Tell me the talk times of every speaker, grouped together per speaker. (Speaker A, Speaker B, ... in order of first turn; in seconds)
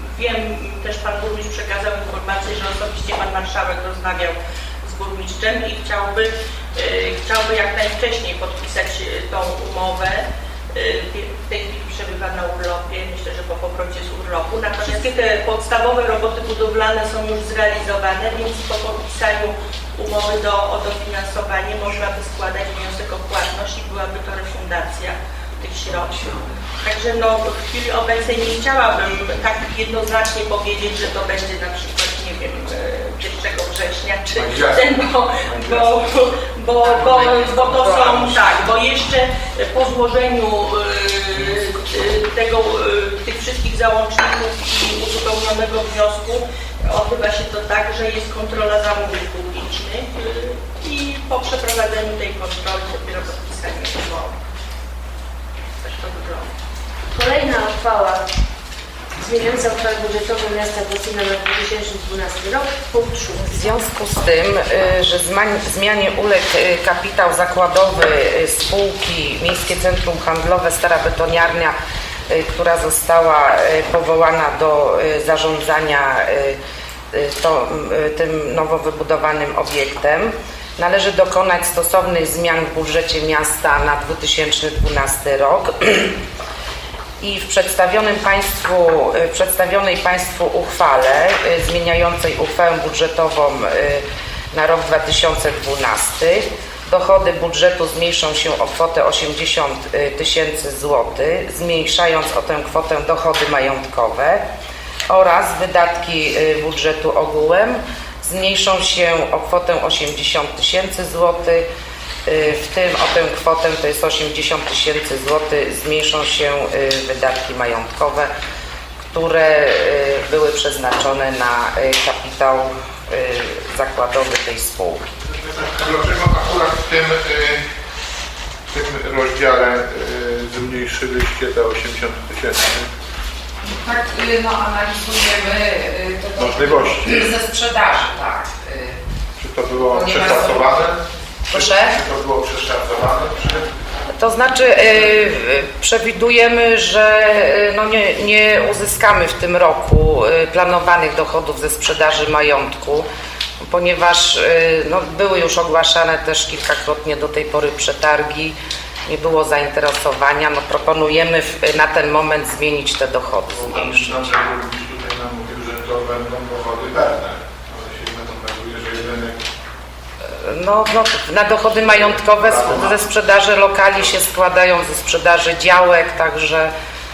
Speaker A: 0.1-54.4, 55.8-56.5
Speaker B: 34.4-36.0, 125.2-127.6, 128.7-132.9, 136.4-137.3, 139.4-143.7, 163.5-169.4, 171.9-173.1
Speaker C: 36.8-38.5, 63.4-71.8, 72.3-76.6, 77.1-86.2, 87.2-104.4, 105.1-111.7, 112.3-118.3, 119.1-125.1, 133.6-139.0, 139.8-140.8, 141.5-142.0, 144.1-153.1, 153.6-158.6, 159.1-164.3, 170.4-176.7
Speaker D: 57.1-58.2, 59.2-63.7